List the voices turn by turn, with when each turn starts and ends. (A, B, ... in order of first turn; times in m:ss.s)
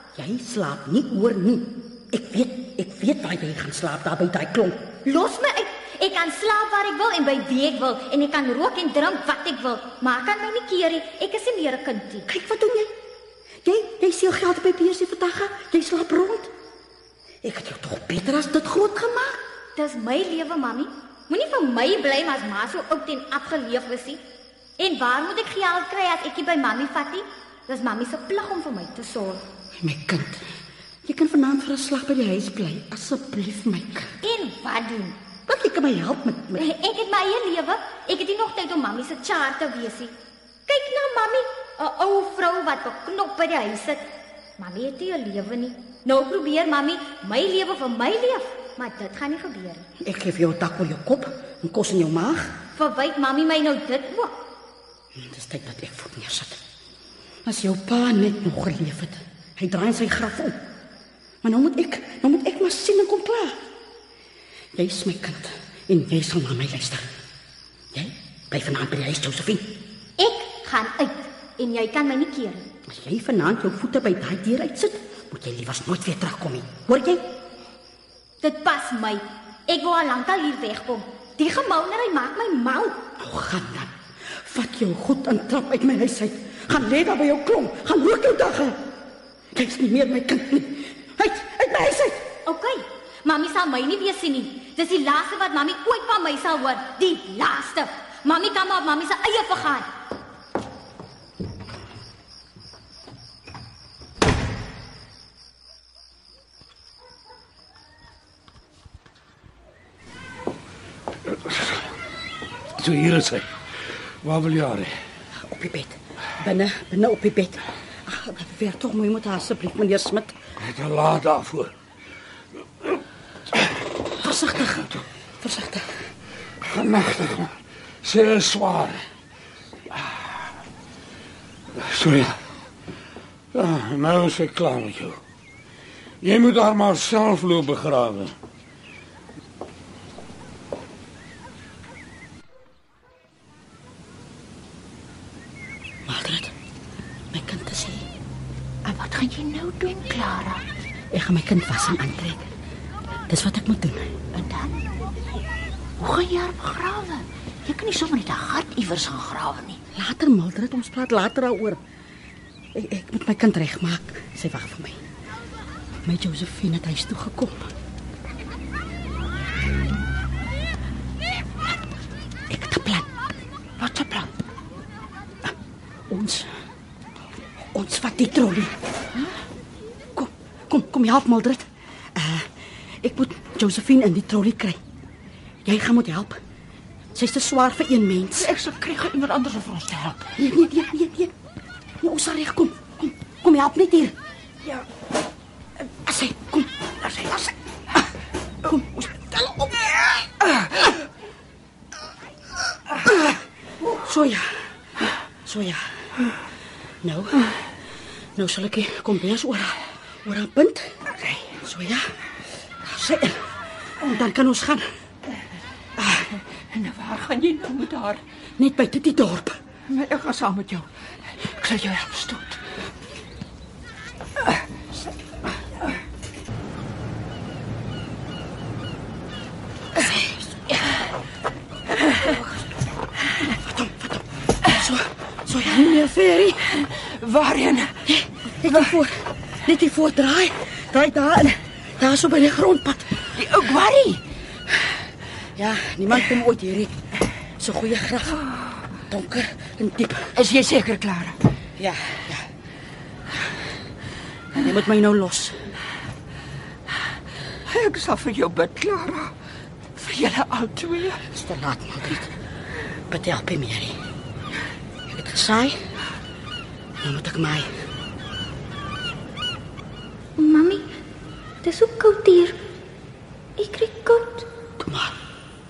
0:00.1-0:05.0 A
0:05.0-0:12.3 B
0:12.3-0:12.9 A
0:13.6-0:16.5 A
0:17.4-0:19.4 A
0:19.8-0:24.2 B
0:24.8-0:29.4 B
0:29.8-0:30.4 A
0:31.0-0:34.1 A
0:34.2-0:35.2 B
0:35.5-0:36.6 A
0:36.6-0:40.1 B
0:40.7-0:44.0 B
0:44.6-0:49.8 B
0:50.0-0:52.6 A
0:52.8-0:54.4 B
0:55.1-0:56.6 A
0:57.4-1:00.6 A
1:01.4-1:03.6 A
1:04.7-1:07.0 A
1:07.9-1:09.7 A
1:10.2-1:12.6 B
1:12.9-1:17.3 A
1:18.4-1:23.0 B
1:23.2-1:28.8 A
1:29.5-1:32.3 A
1:32.4-1:39.9 B
1:51.3-1:51.9 C
1:52.8-1:53.4 C
1:54.2-1:54.9 C
1:55.4-2:00.3 A
2:00.6-2:01.7 C
2:04.2-2:05.9 A
2:06.6-2:09.0 C
2:09.9-2:10.4 C
2:11.8-2:12.4 C
2:13.5-2:15.2 C
2:16.2-2:18.3 C
2:26.0-2:26.5 A
2:27.3-2:28.1 A
2:28.8-2:30.6 D
2:31.1-2:32.5 A
2:33.3-2:34.1 A
2:34.3-2:34.8 D
2:36.0-2:39.8 D
2:39.9-2:41.8 A
2:42.7-2:45.0 A
2:46.0-2:47.7 A
2:52.5-2:53.1 A
2:53.8-2:54.3 D
2:56.1-2:56.6 A
2:57.6-2:58.8 A
3:00.1-3:02.5 A
3:03.0-3:04.8 A
3:05.6-3:06.4 A
3:07.1-3:08.5 A
3:08.3-3:10.3 D
3:10.4-3:11.3 A
3:12.0-3:14.1 A
3:15.8-3:16.7 A
3:17.1-3:17.5 D
3:18.6-3:20.1 A
3:23.0-3:23.3 A
3:23.9-3:24.5 A
3:25.4-3:25.8 A
3:27.0-3:27.4 A
3:28.4-3:31.0 A
3:31.2-3:31.5 D
3:31.6-3:32.1 A
3:32.8-3:34.8 A
3:36.0-3:38.2 D
3:38.6-3:39.6 A
3:39.9-3:40.9 D
3:41.4-3:42.6 D
3:50.0-3:50.9 D
3:53.4-3:56.6 A
3:56.8-3:58.0 D
3:58.0-4:03.1 A
4:03.4-4:04.2 D
4:05.6-4:07.0 A
4:07.6-4:08.4 A
4:09.1-4:10.3 A
4:10.3-4:11.4 D
4:11.8-4:12.5 A
4:14.5-4:15.6 A
4:17.6-4:19.3 D
4:20.0-4:21.2 D
4:21.3-4:22.3 A
4:23.1-4:24.0 A
4:25.1-4:25.8 A
4:27.0-4:27.7 A
4:30.4-4:30.9 B
4:31.6-4:32.6 B
4:33.6-4:34.5 B
4:34.8-4:35.2 A